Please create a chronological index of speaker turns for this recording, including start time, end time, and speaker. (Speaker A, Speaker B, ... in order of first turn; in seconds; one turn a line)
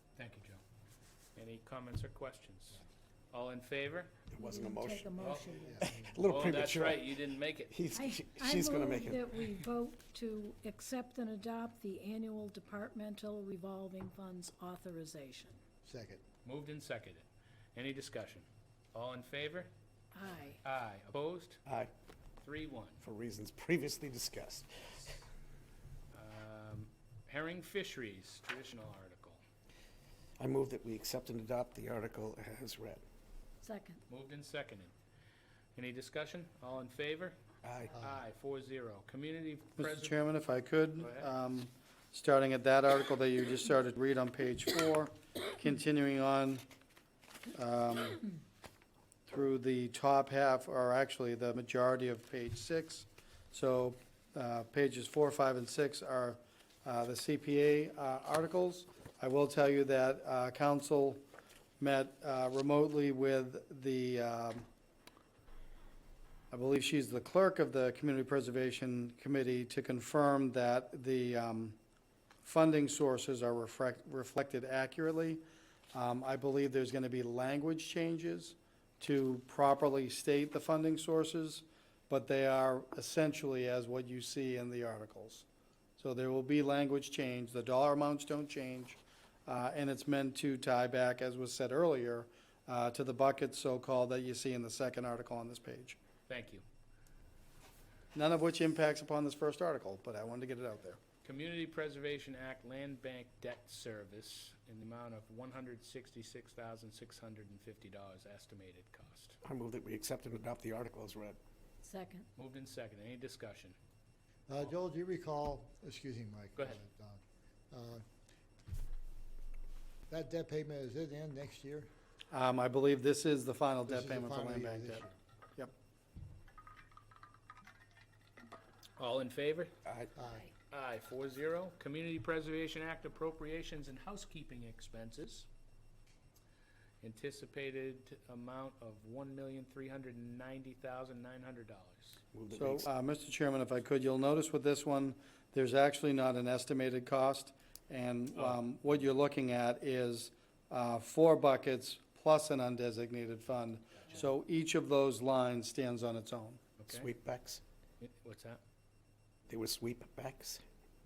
Speaker A: 0.2-0.6
Speaker A: 1.4-4.2
Speaker B: 4.3-5.1
Speaker C: 4.4-5.9
Speaker A: 5.2-5.6
Speaker D: 5.5-6.2
Speaker B: 5.8-7.1
Speaker A: 6.3-7.7
Speaker B: 7.7-9.6
Speaker C: 7.9-15.6
Speaker D: 15.8-16.2
Speaker A: 16.4-19.7
Speaker C: 20.1-20.6
Speaker A: 20.6-21.6
Speaker B: 21.7-21.9
Speaker A: 22.4-23.0
Speaker B: 23.0-25.2
Speaker A: 26.1-29.4
Speaker B: 30.4-33.0
Speaker C: 33.6-34.0
Speaker A: 34.1-34.9
Speaker A: 35.8-37.4
Speaker B: 37.6-37.9
Speaker A: 37.9-40.2
Speaker E: 39.8-46.6
Speaker A: 41.0-41.3
Speaker E: 47.5-48.3
Speaker E: 49.3-61.2
Speaker E: 61.8-64.7
Speaker E: 66.5-71.8
Speaker E: 72.4-75.4
Speaker E: 75.9-85.5
Speaker E: 86.0-96.0
Speaker A: 96.3-96.6
Speaker E: 98.1-101.0
Speaker A: 101.2-109.4
Speaker B: 109.4-111.4
Speaker C: 111.8-112.3
Speaker A: 112.4-113.8
Speaker D: 114.5-118.0
Speaker D: 120.1-121.9
Speaker E: 122.3-125.0
Speaker D: 123.9-125.1
Speaker A: 129.0-129.7
Speaker B: 129.9-130.1
Speaker D: 130.2-130.5
Speaker A: 130.7-135.5
Speaker A: 137.0-142.2
Speaker B: 142.3-142.9
Speaker E: 142.6-156.6
Speaker A: 156.8-157.1
Speaker B: 156.9-157.6
Speaker A: 158.0-158.6
Speaker B: 159.5-160.6